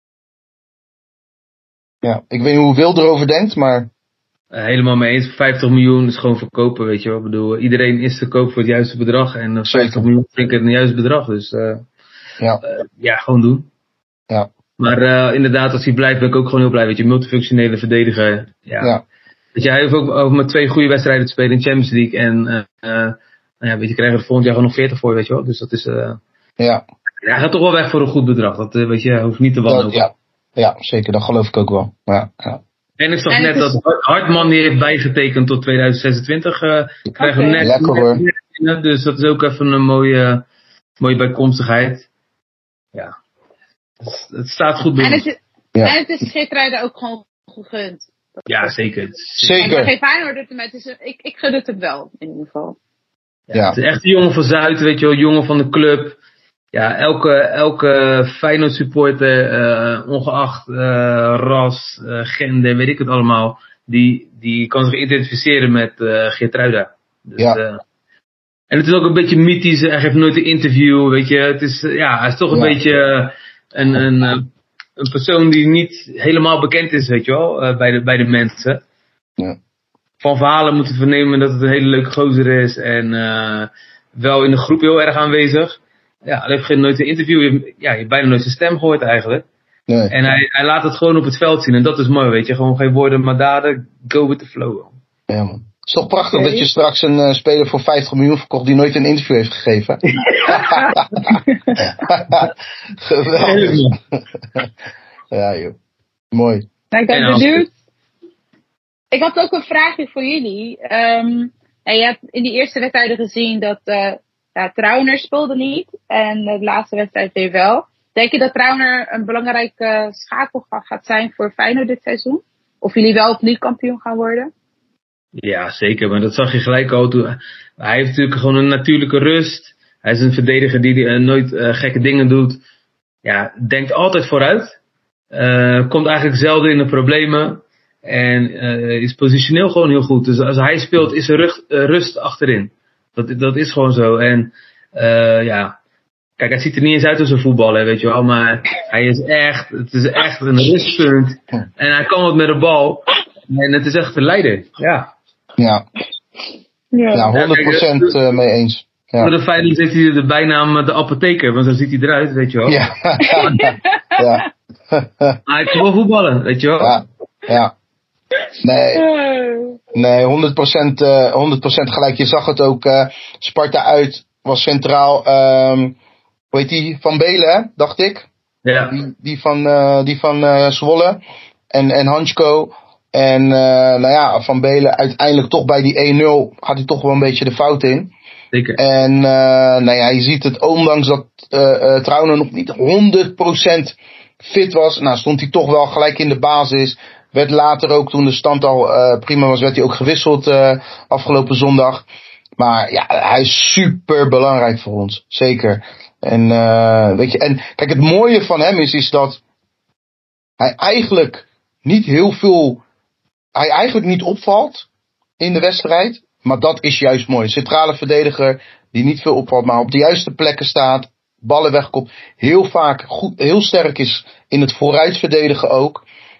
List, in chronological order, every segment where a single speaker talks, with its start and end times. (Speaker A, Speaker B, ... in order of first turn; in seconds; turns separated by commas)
Speaker A: 2.0-3.9, Speaker B: 4.5-11.8, Speaker A: 9.7-10.0, Speaker B: 12.6-13.7, Speaker B: 14.8-19.0, Speaker B: 19.5-26.2, Speaker B: 27.2-30.1, Speaker A: 29.7-32.6, Speaker B: 33.0-40.4, Speaker C: 33.3-33.7, Speaker C: 37.2-37.6, Speaker A: 37.6-38.2, Speaker B: 41.0-42.1, Speaker B: 44.0-45.2, Speaker C: 45.0-48.7, Speaker B: 48.5-49.7, Speaker A: 49.4-49.9, Speaker C: 49.6-52.8, Speaker B: 53.5-56.2, Speaker A: 53.5-53.8, Speaker B: 56.7-67.8, Speaker B: 68.7-74.5, Speaker A: 72.5-72.8, Speaker B: 75.0-78.8, Speaker B: 80.2-89.5, Speaker A: 89.9-90.1, Speaker B: 90.1-94.9, Speaker A: 95.3-101.4, Speaker C: 96.3-96.7, Speaker B: 100.2-101.0, Speaker C: 101.5-101.8, Speaker A: 102.0-102.5, Speaker A: 103.0-103.8, Speaker B: 103.4-104.0, Speaker A: 105.3-105.8, Speaker A: 106.3-106.7, Speaker C: 106.9-107.7, Speaker B: 107.1-107.6, Speaker C: 109.1-124.5, Speaker B: 125.4-132.6, Speaker B: 133.2-134.8, Speaker B: 135.3-145.8, Speaker B: 146.4-155.1, Speaker A: 155.6-155.8, Speaker C: 156.9-157.3, Speaker A: 157.1-159.3, Speaker B: 157.3-158.2, Speaker B: 159.2-162.8, Speaker A: 162.7-165.4, Speaker C: 163.2-164.2, Speaker B: 165.5-167.0, Speaker A: 166.8-167.7, Speaker A: 168.6-169.0, Speaker C: 168.9-169.8, Speaker A: 169.9-175.9, Speaker A: 176.5-178.3, Speaker B: 178.6-178.9, Speaker A: 178.9-181.2, Speaker A: 181.7-188.1, Speaker B: 188.5-188.8, Speaker A: 188.8-202.0, Speaker A: 202.6-209.4, Speaker A: 210.6-212.8, Speaker A: 213.5-214.9, Speaker A: 215.4-226.0